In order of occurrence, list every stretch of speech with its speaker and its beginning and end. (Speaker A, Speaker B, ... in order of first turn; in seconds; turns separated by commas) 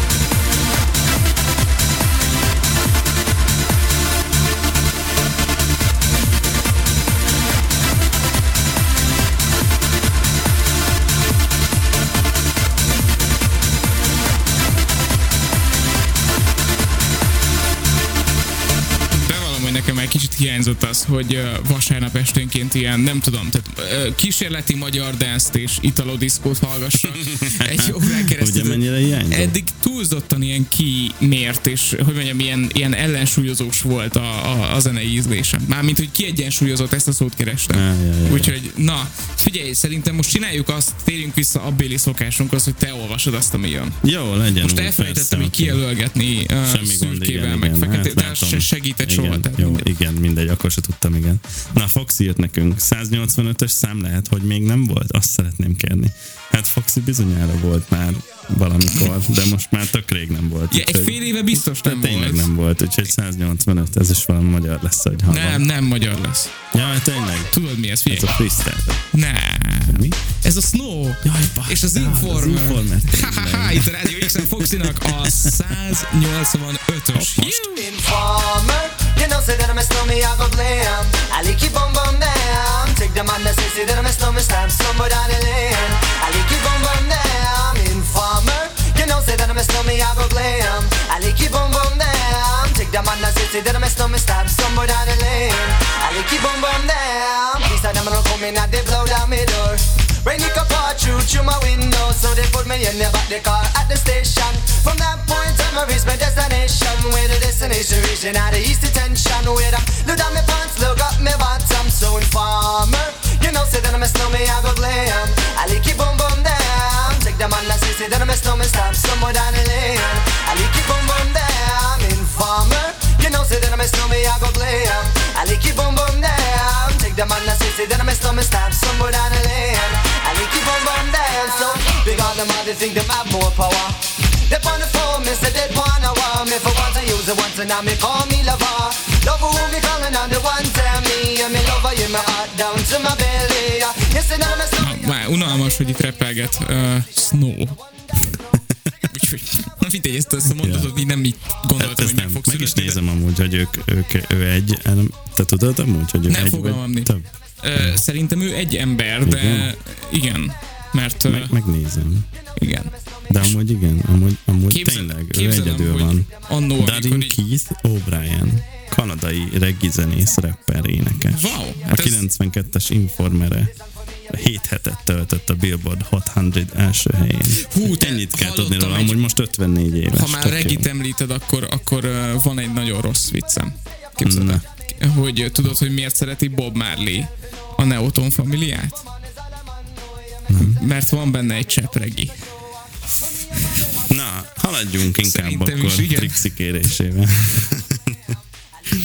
Speaker A: 19.1-44.0, Speaker B: 27.3-29.5, Speaker B: 37.7-38.5, Speaker B: 44.0-45.8, Speaker A: 44.6-49.9, Speaker B: 46.6-65.7, Speaker A: 60.7-62.5, Speaker A: 65.3-66.5, Speaker B: 66.7-67.5, Speaker A: 67.5-68.3, Speaker B: 68.1-69.0, Speaker A: 69.1-77.8, Speaker B: 69.9-70.2, Speaker B: 71.2-75.5, Speaker B: 77.1-77.7, Speaker C: 77.7-144.8, Speaker A: 144.8-147.8, Speaker A: 149.1-153.0, Speaker B: 150.5-150.9, Speaker B: 151.8-158.0, Speaker A: 156.3-157.1, Speaker A: 157.6-161.5, Speaker B: 159.2-159.7, Speaker B: 161.3-162.3, Speaker A: 162.6-163.6, Speaker B: 163.3-173.7, Speaker A: 164.7-167.4, Speaker A: 171.3-172.2, Speaker B: 174.3-180.9, Speaker A: 177.5-179.2, Speaker A: 180.1-189.1, Speaker B: 184.2-184.6, Speaker B: 190.5-190.8, Speaker A: 190.6-192.4, Speaker B: 194.1-198.2, Speaker A: 195.2-196.5